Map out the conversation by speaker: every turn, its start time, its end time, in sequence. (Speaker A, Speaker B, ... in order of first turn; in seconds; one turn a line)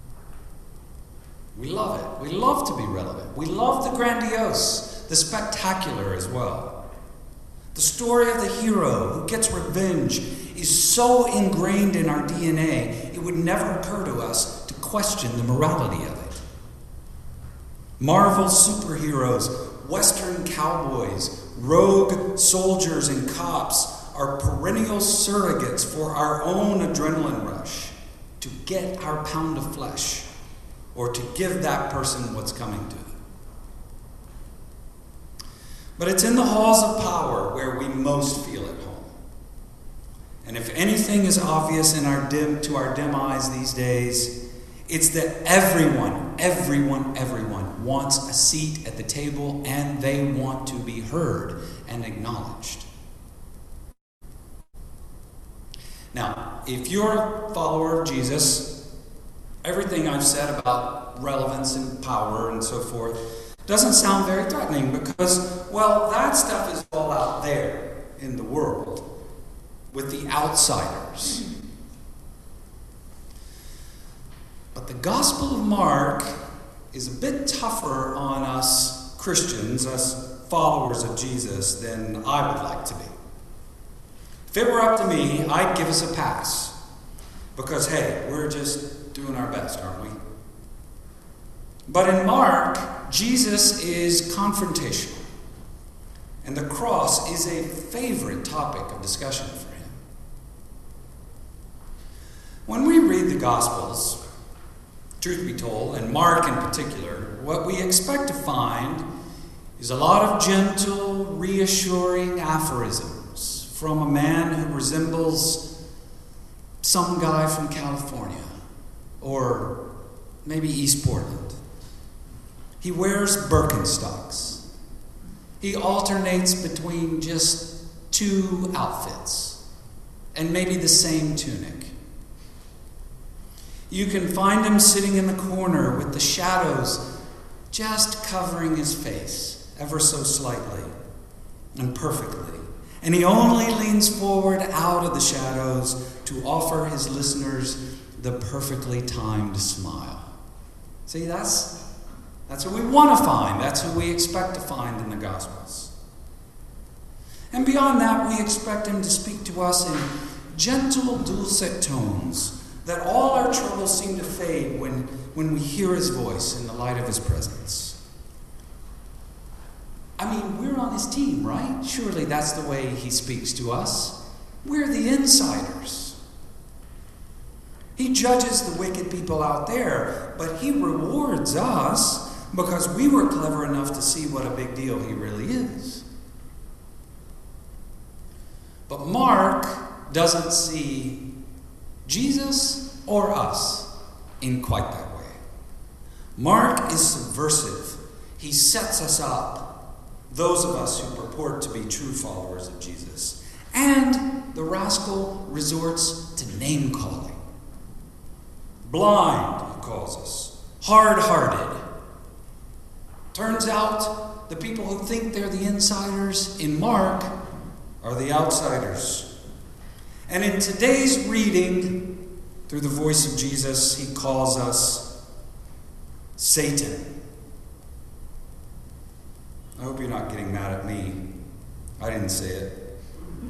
Speaker A: 1.5-6.8
Speaker A: 7.7-16.4
Speaker A: 18.0-30.3
Speaker A: 30.9-33.1
Speaker A: 36.0-39.1
Speaker A: 40.4-44.3
Speaker A: 44.9-52.9
Speaker A: 56.1-58.8
Speaker A: 59.6-69.1
Speaker A: 69.9-71.5
Speaker A: 74.7-76.3
Speaker A: 76.9-83.1
Speaker A: 84.5-86.8
Speaker A: 87.5-90.1
Speaker A: 91.9-95.2
Speaker A: 96.4-100.0
Speaker A: 102.7-104.2
Speaker A: 105.2-109.0
Speaker A: 109.8-115.7
Speaker A: 116.8-118.5
Speaker A: 119.2-119.8
Speaker A: 120.4-121.6
Speaker A: 122.8-124.6
Speaker A: 125.6-129.6
Speaker A: 130.3-131.9
Speaker A: 133.9-137.1
Speaker A: 137.7-140.9
Speaker A: 141.7-150.3
Speaker A: 151.1-151.8
Speaker A: 152.5-155.9
Speaker A: 157.5-168.0
Speaker A: 170.2-176.2
Speaker A: 177.9-186.0
Speaker A: 188.9-191.3
Speaker A: 192.0-195.4
Speaker A: 196.3-207.4
Speaker A: 208.8-211.8
Speaker A: 213.3-217.3
Speaker A: 218.0-219.3
Speaker A: 220.3-225.1
Speaker A: 226.4-227.1
Speaker A: 229.8-231.2
Speaker A: 232.0-232.9